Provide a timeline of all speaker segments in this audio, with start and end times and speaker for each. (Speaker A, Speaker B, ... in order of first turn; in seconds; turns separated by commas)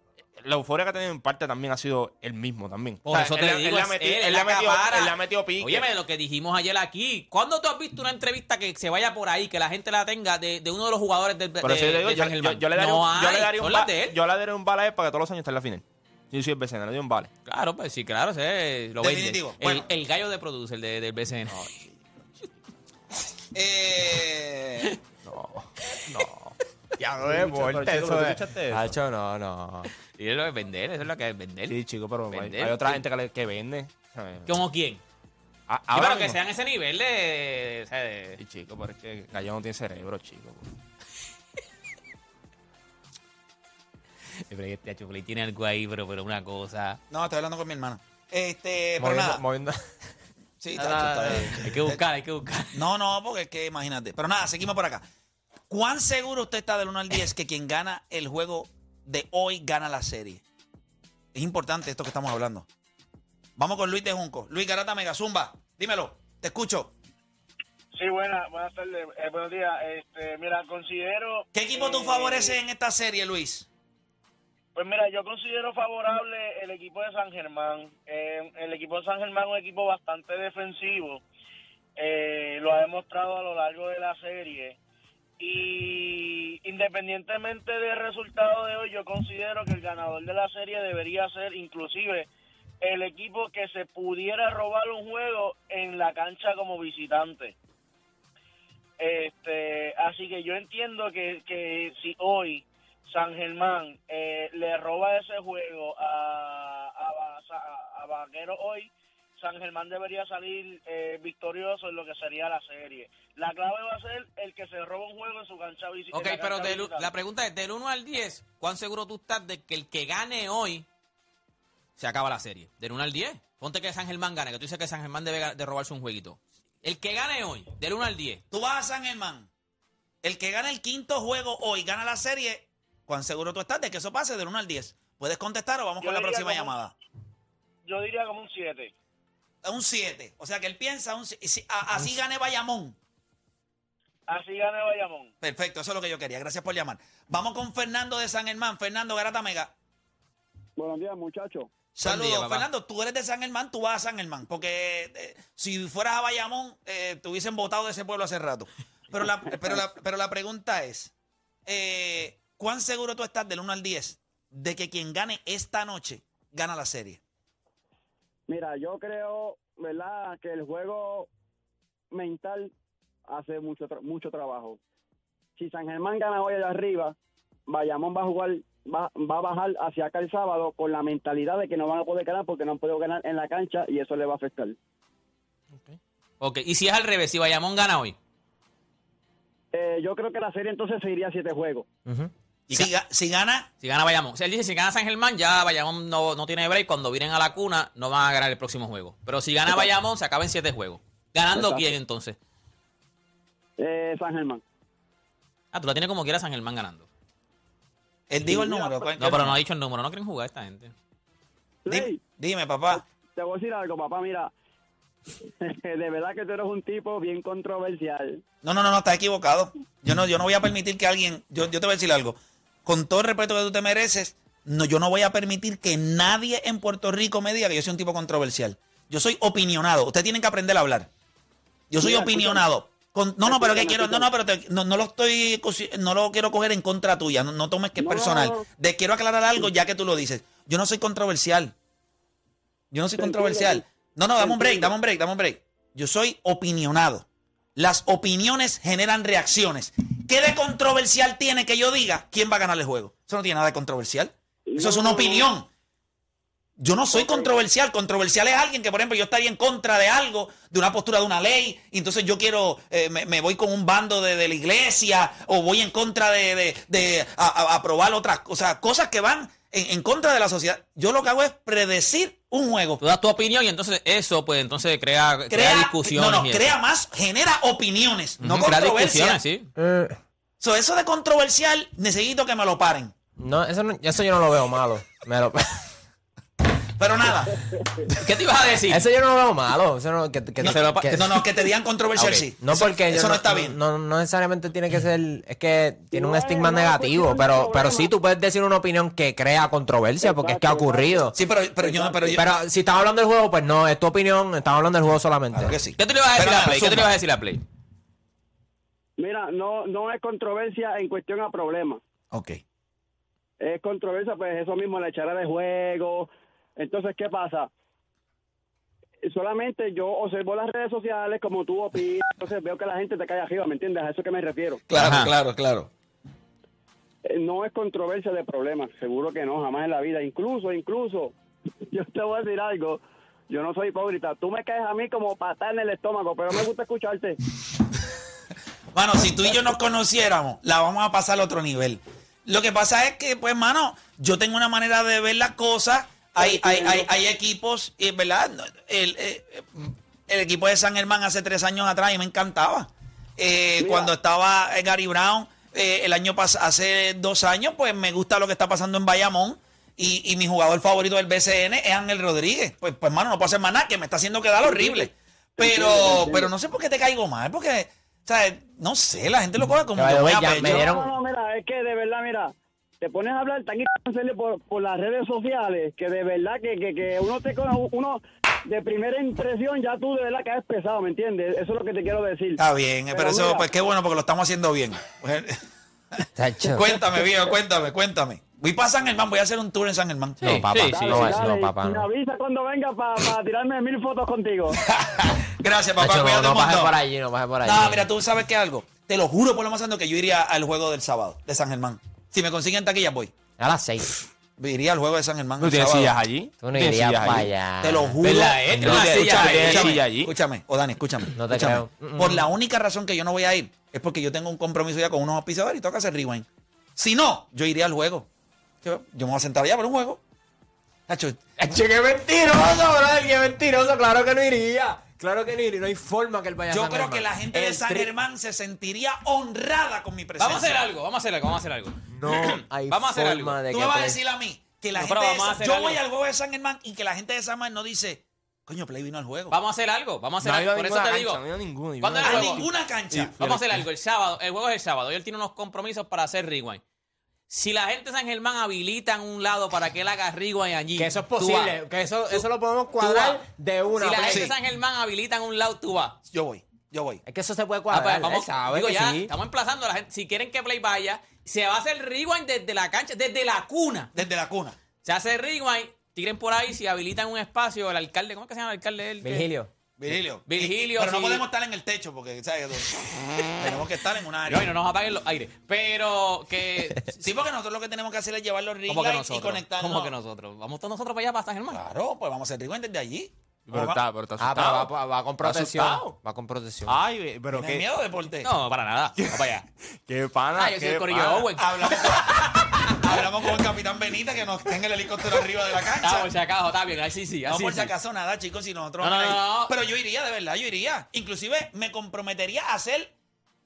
Speaker A: 0.4-5.9, Speaker B: 3.0-14.2, Speaker A: 11.6-17.3, Speaker B: 17.4-21.7, Speaker C: 19.0-19.8, Speaker A: 21.5-22.0, Speaker C: 23.5-24.9, Speaker A: 25.2-26.6, Speaker D: 27.0-29.9, Speaker A: 27.2-29.0, Speaker B: 30.1-31.8, Speaker A: 31.7-34.6, Speaker B: 32.3-33.0, Speaker B: 34.5-35.0, Speaker A: 35.7-36.4, Speaker B: 35.9-38.4, Speaker A: 38.4-40.7, Speaker B: 44.4-47.0, Speaker C: 47.1-49.4, Speaker D: 49.0-49.8, Speaker C: 50.6-52.0, Speaker D: 50.8-51.6, Speaker B: 51.3-52.8, Speaker C: 52.7-55.0, Speaker C: 55.7-60.4, Speaker C: 61.3-62.7, Speaker C: 63.6-66.9, Speaker E: 67.9-72.6, Speaker C: 71.5-73.7, Speaker E: 74.7-81.2, Speaker E: 82.0-84.8, Speaker E: 85.4-92.3, Speaker E: 92.8-97.5, Speaker E: 99.0-117.1, Speaker B: 116.1-120.8, Speaker B: 122.0-128.4, Speaker C: 128.5-129.5, Speaker C: 130.2-136.9, Speaker E: 136.0-136.8, Speaker E: 137.8-138.9, Speaker C: 139.6-143.0, Speaker E: 144.3-145.3, Speaker C: 145.4-149.7, Speaker F: 150.8-151.7, Speaker C: 151.9-161.1, Speaker B: 152.0-152.7, Speaker C: 161.7-167.2, Speaker F: 168.5-171.3, Speaker F: 172.1-172.7, Speaker F: 173.3-174.8, Speaker F: 175.6-177.2, Speaker F: 177.7-184.8, Speaker B: 186.4-188.2, Speaker F: 189.7-191.8, Speaker C: 192.7-193.7, Speaker B: 193.8-202.3, Speaker F: 201.5-201.9, Speaker F: 203.8-204.6, Speaker B: 205.7-207.1, Speaker C: 208.3-209.6, Speaker F: 208.4-209.1, Speaker B: 209.2-210.9, Speaker F: 211.8-212.2, Speaker C: 211.9-213.0, Speaker F: 212.9-214.5, Speaker F: 215.6-218.4, Speaker C: 218.6-231.1, Speaker C: 231.9-241.7, Speaker F: 232.0-232.6, Speaker F: 233.4-234.3, Speaker F: 238.0-238.7, Speaker C: 242.9-255.7, Speaker F: 243.2-243.8, Speaker F: 244.4-244.9, Speaker F: 254.7-255.5, Speaker C: 256.8-273.0, Speaker F: 257.1-257.5, Speaker B: 273.0-276.7, Speaker C: 275.5-279.4, Speaker B: 278.4-279.7, Speaker D: 279.8-280.2, Speaker C: 280.6-283.1, Speaker D: 283.4-285.8, Speaker C: 287.0-287.6, Speaker B: 288.1-289.0, Speaker D: 288.9-291.3, Speaker B: 290.6-291.4, Speaker C: 290.6-293.8, Speaker B: 292.1-292.4, Speaker D: 292.6-301.3, Speaker F: 296.1-298.1, Speaker F: 300.2-302.4, Speaker C: 301.3-302.4, Speaker D: 302.3-305.8, Speaker C: 305.5-307.1, Speaker B: 306.0-307.6, Speaker F: 309.2-312.0, Speaker C: 312.3-312.6, Speaker F: 313.6-317.7, Speaker F: 319.2-324.8, Speaker C: 324.9-325.9, Speaker B: 325.0-325.3, Speaker F: 327.2-331.3, Speaker F: 331.9-337.4, Speaker C: 338.9-370.9, Speaker F: 346.4-347.1, Speaker F: 353.8-354.1, Speaker F: 364.6-366.5, Speaker D: 369.9-371.1, Speaker F: 370.5-382.6, Speaker C: 382.6-385.6, Speaker F: 383.1-383.7, Speaker C: 386.1-390.6, Speaker D: 386.3-387.0, Speaker D: 390.4-392.1, Speaker B: 390.4-391.3, Speaker F: 390.9-394.8, Speaker C: 394.8-396.9, Speaker D: 396.0-398.1, Speaker C: 397.6-403.3, Speaker D: 403.6-404.1, Speaker C: 404.6-406.2, Speaker A: 405.6-407.5, Speaker D: 406.6-408.2, Speaker C: 407.8-418.3, Speaker B: 408.2-410.0, Speaker A: 408.7-410.3, Speaker D: 411.3-412.5, Speaker C: 418.8-420.2, Speaker C: 421.1-421.4, Speaker D: 421.6-428.1, Speaker C: 426.7-430.8, Speaker B: 430.4-433.6, Speaker D: 432.2-434.2, Speaker C: 433.7-439.6, Speaker B: 434.9-436.0, Speaker B: 439.5-441.4, Speaker A: 440.4-443.9, Speaker B: 442.0-442.7, Speaker C: 442.2-443.3, Speaker B: 443.4-446.8, Speaker B: 447.5-451.8, Speaker D: 451.0-454.5, Speaker B: 453.0-453.4, Speaker B: 454.0-456.2, Speaker C: 454.3-454.5, Speaker C: 456.3-457.2, Speaker D: 457.2-459.3, Speaker B: 457.9-464.1, Speaker C: 464.1-464.8, Speaker B: 465.0-469.5, Speaker D: 469.2-469.7, Speaker C: 470.0-474.7, Speaker B: 470.4-471.4, Speaker B: 474.4-477.2, Speaker C: 477.2-480.1, Speaker B: 478.9-481.8, Speaker C: 481.7-484.0, Speaker A: 483.7-486.1, Speaker D: 484.4-487.0, Speaker A: 486.9-487.8, Speaker C: 487.5-488.5, Speaker B: 488.4-489.6, Speaker A: 489.2-491.5, Speaker B: 490.6-493.1, Speaker C: 491.6-496.3, Speaker B: 496.0-497.9, Speaker C: 497.5-503.1, Speaker B: 499.0-499.7